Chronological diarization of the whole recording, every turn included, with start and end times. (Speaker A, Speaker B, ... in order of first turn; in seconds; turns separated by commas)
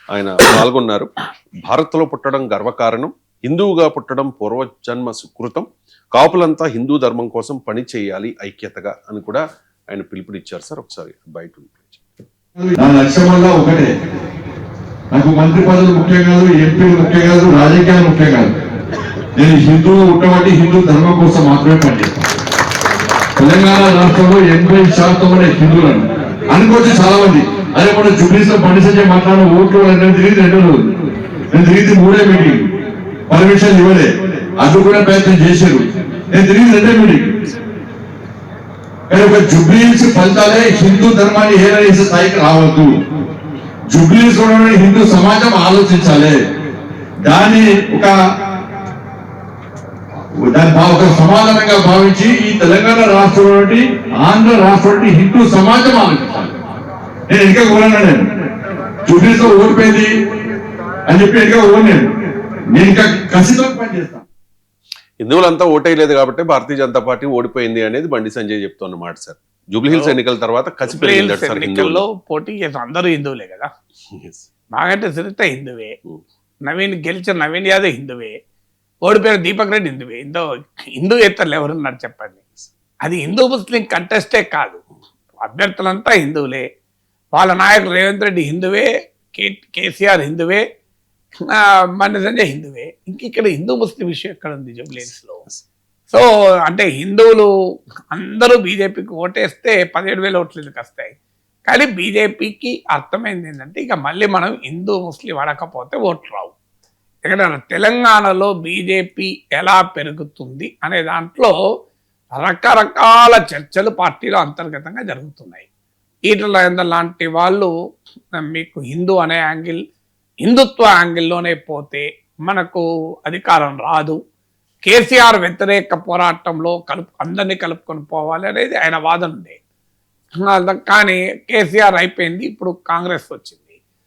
Speaker A: 0.1-1.1, Speaker A: 1.7-12.1, Speaker B: 12.7-13.9, Speaker B: 15.1-18.5, Speaker B: 19.4-22.2, Speaker B: 23.4-30.9, Speaker B: 31.5-32.7, Speaker B: 33.3-37.4, Speaker B: 39.1-42.9, Speaker B: 43.9-46.4, Speaker B: 47.2-48.1, Speaker B: 50.4-56.5, Speaker B: 57.3-58.3, Speaker B: 59.1-60.1, Speaker B: 61.1-62.1, Speaker B: 62.7-64.2, Speaker A: 65.2-72.0, Speaker C: 70.9-73.7, Speaker A: 74.2-74.5, Speaker C: 74.8-76.0, Speaker C: 76.7-78.4, Speaker C: 79.0-80.5, Speaker C: 81.0-82.4, Speaker C: 83.0-84.8, Speaker C: 85.4-86.7, Speaker C: 87.4-90.6, Speaker C: 91.5-95.5, Speaker C: 96.1-97.5, Speaker C: 98.1-101.1, Speaker C: 101.7-106.5, Speaker C: 107.3-111.5, Speaker C: 112.4-115.7, Speaker C: 116.3-117.7, Speaker C: 118.4-119.8, Speaker C: 120.4-124.2, Speaker C: 124.9-129.6, Speaker C: 130.4-133.7